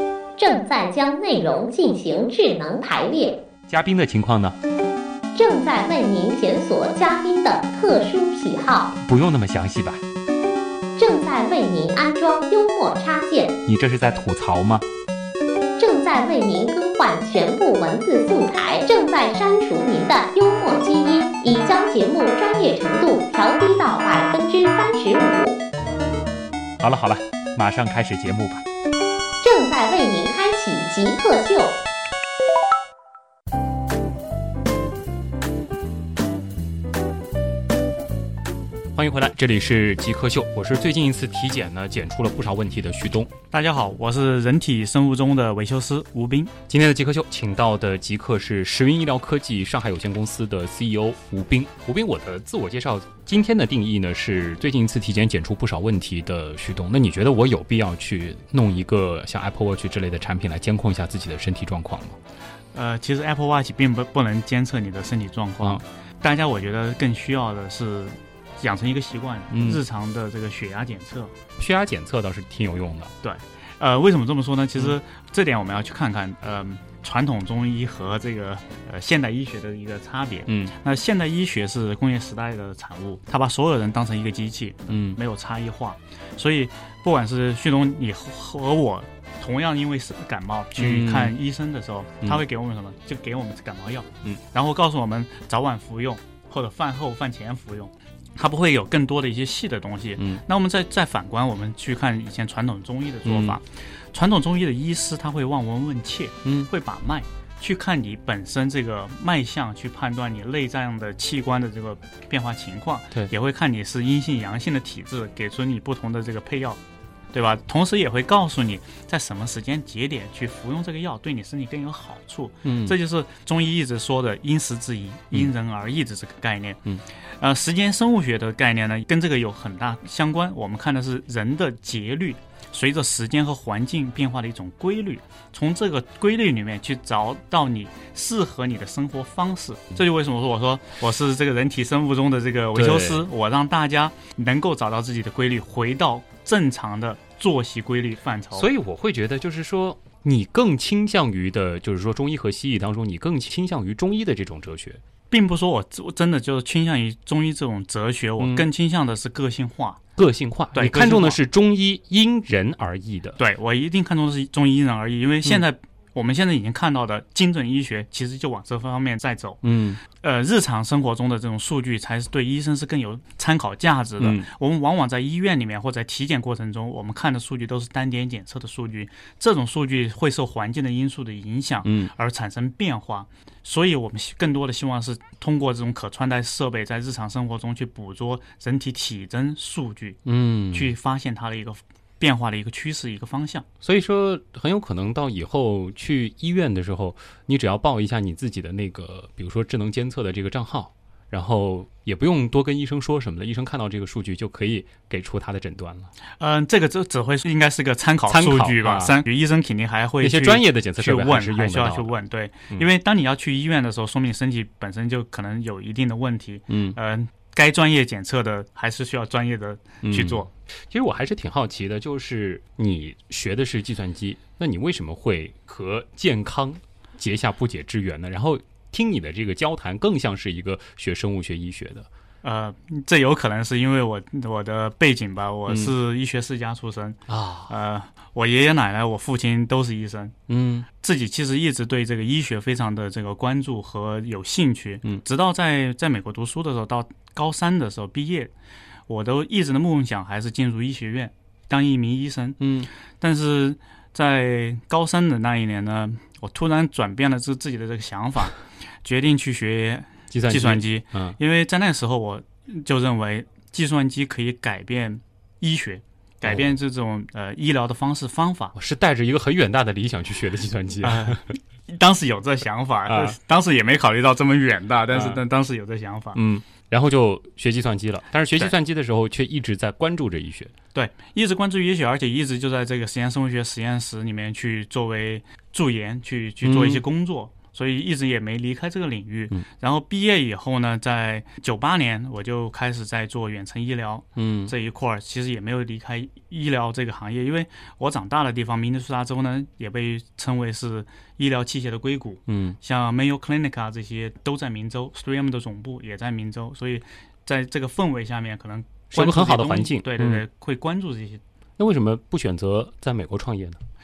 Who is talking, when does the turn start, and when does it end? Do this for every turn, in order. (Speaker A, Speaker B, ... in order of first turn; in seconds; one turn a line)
Speaker A: 0.4-3.4
Speaker B: 3.7-4.6
Speaker A: 5.3-8.9
Speaker B: 9.0-10.0
Speaker A: 11.0-13.6
Speaker B: 13.6-14.8
Speaker A: 15.8-25.6
Speaker B: 26.8-28.6
Speaker A: 29.4-31.8
Speaker B: 38.9-43.3
Speaker C: 43.5-46.5
Speaker B: 46.7-62.2
Speaker C: 62.7-71.3
Speaker B: 69.5-69.8
Speaker B: 71.6-73.1
Speaker C: 73.2-116.8
Speaker B: 80.5-80.7
Speaker B: 84.9-85.2
Speaker B: 90.8-91.4
Speaker B: 100.2-100.4
Speaker B: 103.2-103.6
Speaker C: 117.3-148.7
Speaker B: 122.6-123.0
Speaker B: 142.7-143.3
Speaker B: 148.5-155.0
Speaker C: 155.3-160.0
Speaker B: 158.4-158.7
Speaker B: 160.2-163.4
Speaker C: 160.7-161.4
Speaker C: 163.4-190.2
Speaker B: 169.6-170.0
Speaker B: 174.2-174.5
Speaker B: 181.8-182.1
Speaker B: 190.2-190.9
Speaker C: 190.7-193.7
Speaker B: 193.8-206.1
Speaker C: 206.4-220.5
Speaker B: 208.3-209.2
Speaker B: 210.2-212.1
Speaker B: 216.7-217.0
Speaker B: 220.0-232.1
Speaker C: 232.4-240.3
Speaker B: 235.7-235.9
Speaker B: 237.3-237.7
Speaker B: 240.5-240.9
Speaker C: 241.0-248.5
Speaker C: 249.1-252.6
Speaker B: 252.6-252.9
Speaker C: 253.2-268.7
Speaker B: 260.3-261.4
Speaker B: 268.7-271.6
Speaker C: 271.0-276.4
Speaker B: 273.1-273.3
Speaker B: 275.1-275.4
Speaker B: 276.3-280.7
Speaker C: 280.9-311.4
Speaker B: 286.6-287.0
Speaker B: 294.4-294.7
Speaker B: 302.5-302.8
Speaker B: 309.1-310.4
Speaker B: 311.8-313.8